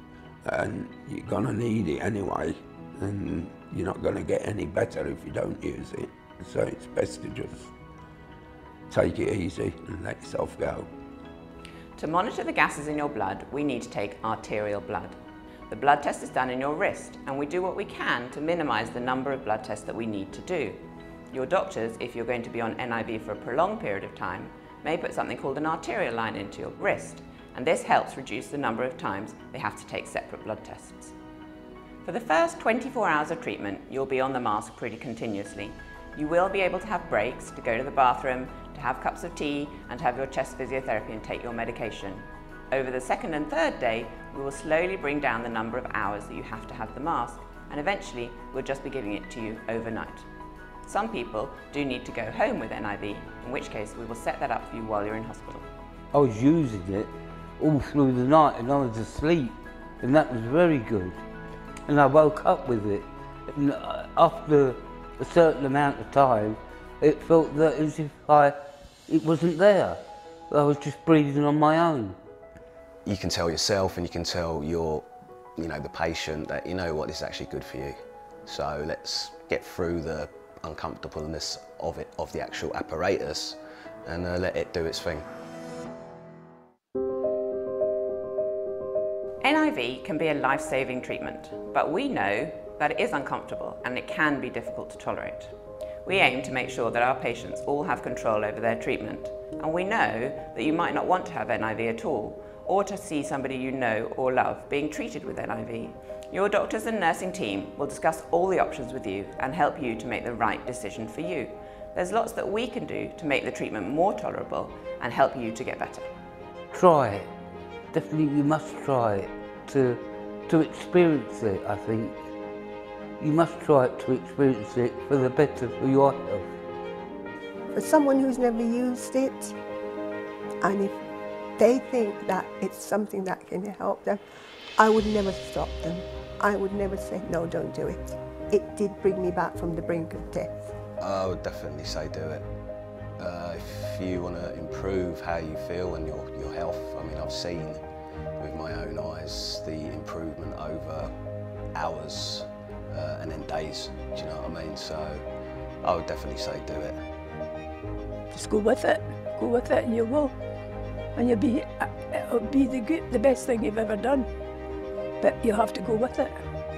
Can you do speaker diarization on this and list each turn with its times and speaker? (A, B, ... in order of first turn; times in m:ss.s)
0:00.4-0:07.7 A
0:08.9-0:10.9 A
0:12.0-0:31.2 B
0:32.0-0:50.3 B
0:50.9-0:55.7 B
0:56.1-1:01.2 C
1:01.9-1:12.2 C
1:13.0-1:25.3 D
1:29.4-1:56.1 B
1:56.7-1:57.3 C
1:57.9-2:02.3 C
2:03.2-2:06.6 C
2:07.7-2:09.6 E
2:10.6-2:11.0 E
2:11.6-2:20.7 E
2:21.0-2:37.0 D
2:38.3-2:40.3 F
2:41.2-2:44.3 F
2:45.2-2:46.4 F